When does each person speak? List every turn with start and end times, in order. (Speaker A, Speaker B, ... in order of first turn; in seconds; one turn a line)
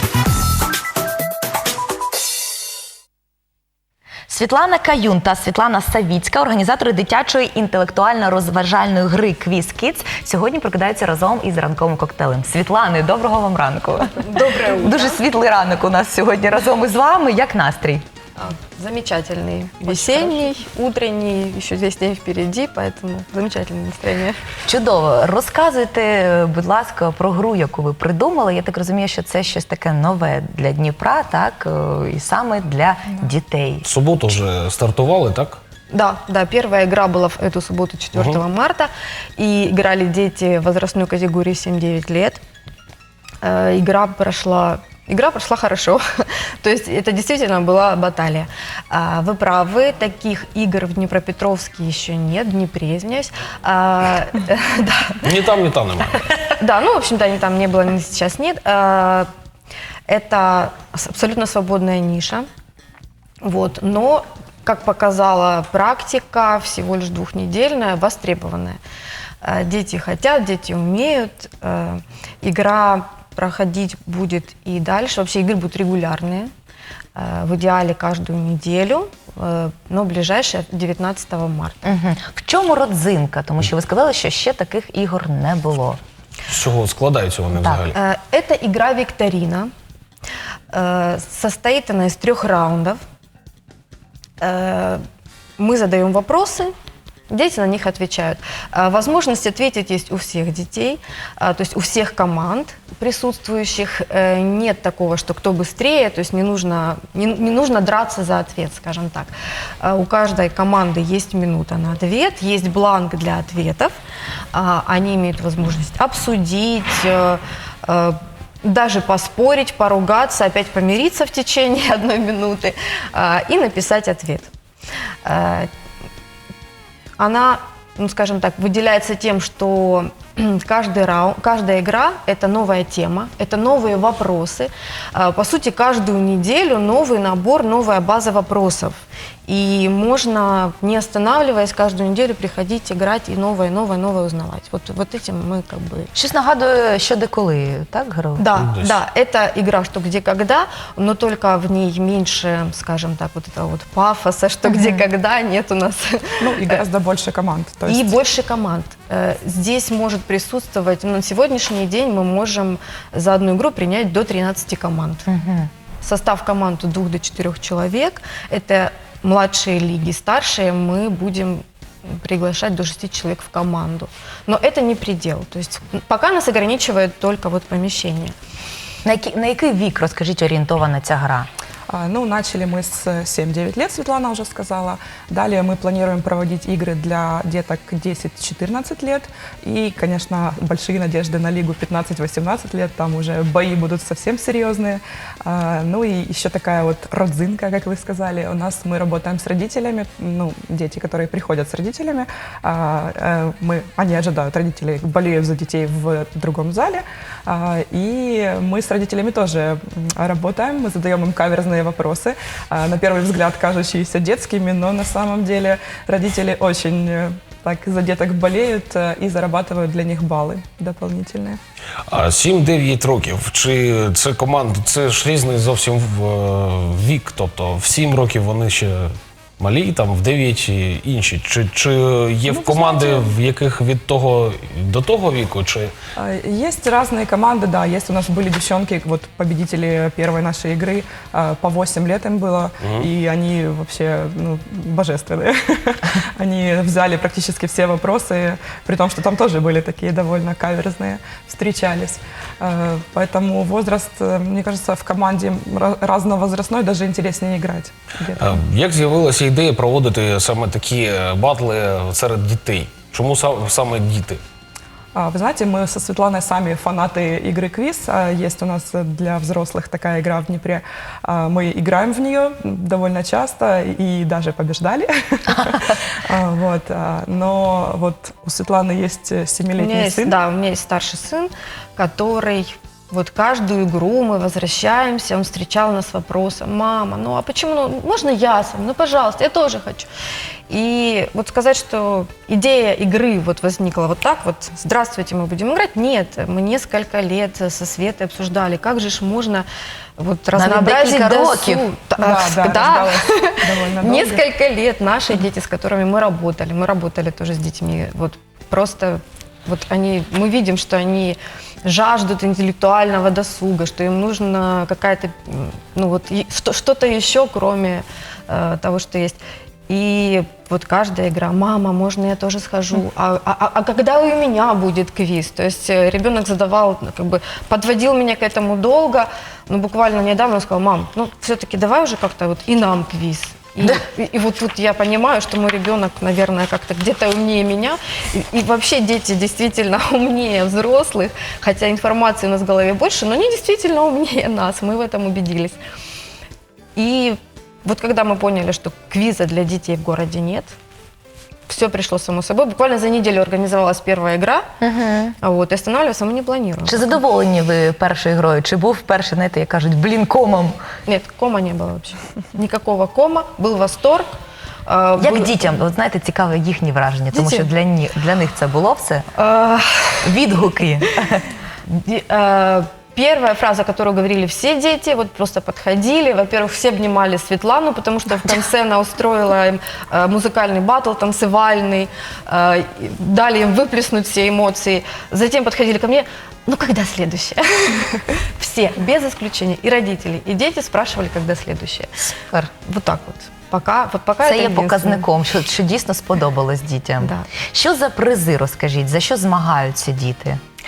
Speaker A: 4.3-18.0
Speaker B: 14.1-15.2
Speaker B: 18.4-24.4
Speaker A: 19.9-20.3
Speaker A: 24.7-33.9
Speaker C: 33.8-35.6
Speaker B: 35.9-42.4
Speaker C: 38.1-38.4
Speaker B: 43.4-55.2
Speaker C: 55.2-56.3
Speaker B: 56.6-59.3
Speaker B: 60.1-62.5
Speaker B: 63.4-68.8
Speaker B: 69.4-76.5
Speaker B: 77.2-81.9
Speaker A: 81.8-86.0
Speaker C: 86.5-88.0
Speaker A: 87.6-87.9
Speaker B: 87.9-89.7
Speaker B: 90.7-93.0
Speaker B: 94.4-95.0
Speaker B: 95.6-96.7
Speaker B: 97.3-114.0
Speaker B: 114.5-124.5
Speaker B: 125.2-125.7
Speaker B: 127.2-146.1
Speaker A: 146.2-148.4
Speaker B: 148.4-156.8
Speaker C: 148.6-149.0
Speaker D: 156.4-158.2
Speaker B: 157.9-165.3
Speaker A: 165.3-165.7
Speaker B: 166.0-178.3
Speaker A: 179.1-181.5
Speaker D: 181.9-221.6
Speaker C: 222.1-235.9
Speaker D: 232.5-233.4
Speaker D: 236.2-258.6
Speaker C: 242.8-243.1
Speaker C: 258.4-264.4
Speaker D: 265.1-280.4
Speaker B: 279.8-290.1
Speaker B: 290.7-345.8
Speaker A: 300.6-301.9
Speaker D: 302.2-304.4
Speaker B: 347.0-350.8
Speaker B: 351.7-354.7
Speaker A: 354.8-355.4
Speaker B: 355.4-357.1
Speaker A: 356.9-360.8
Speaker B: 361.1-364.3
Speaker B: 364.9-365.7
Speaker A: 365.2-369.3
Speaker B: 367.3-367.7
Speaker B: 369.4-370.4
Speaker A: 370.2-371.5
Speaker B: 371.9-392.1
Speaker B: 392.8-395.3
Speaker A: 394.4-400.6
Speaker B: 397.2-397.5